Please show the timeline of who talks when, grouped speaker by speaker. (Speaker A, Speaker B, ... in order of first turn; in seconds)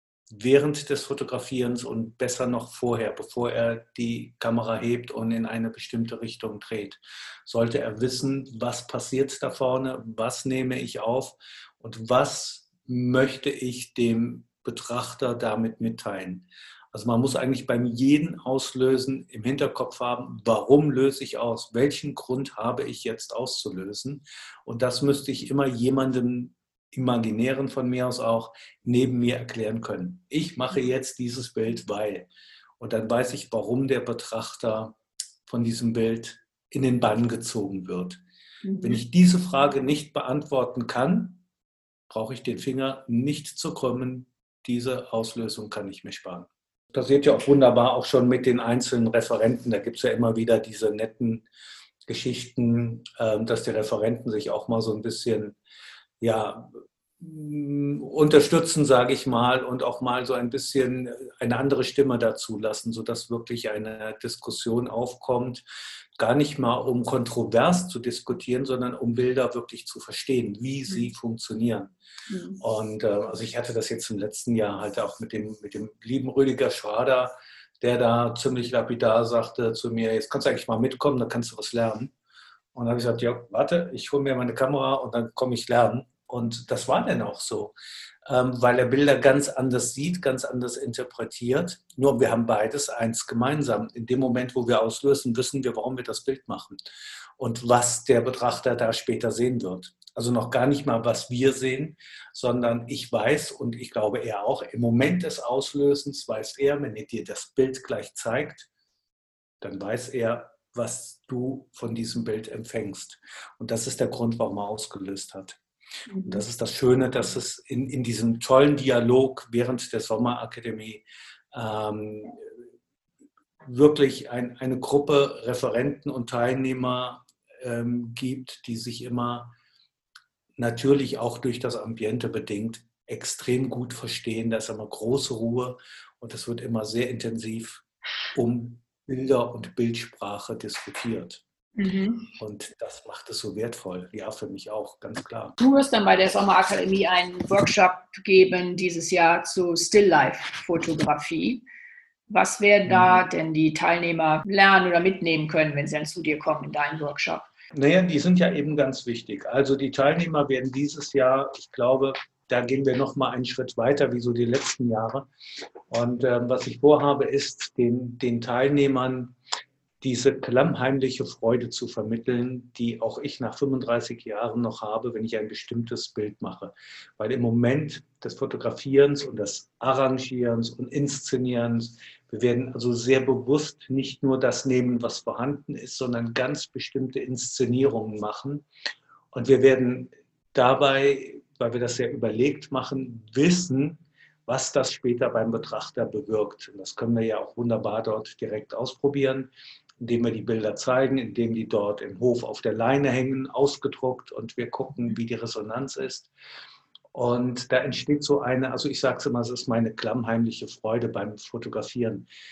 Speaker A: 0.3-38.2, 38.8-41.4, 42.1-51.5, 52.1-55.6, 56.2-65.6, 66.2-71.9, 72.6-82.1, 82.7-87.7, 88.2-96.8, 97.4-108.7, 109.6-115.6, 116.2-122.6, 123.6-129.5, 130.6-141.4, 142.4-145.6, 152.9-153.2, 157.7-165.3, 165.9-169.3, 170.0-188.7, 189.3-199.5, 200.0-206.3, 207.1-212.3
Speaker B: 38.6-39.0, 72.3-72.6, 116.1-116.4, 141.8-142.3, 145.6-151.6, 152.3-157.5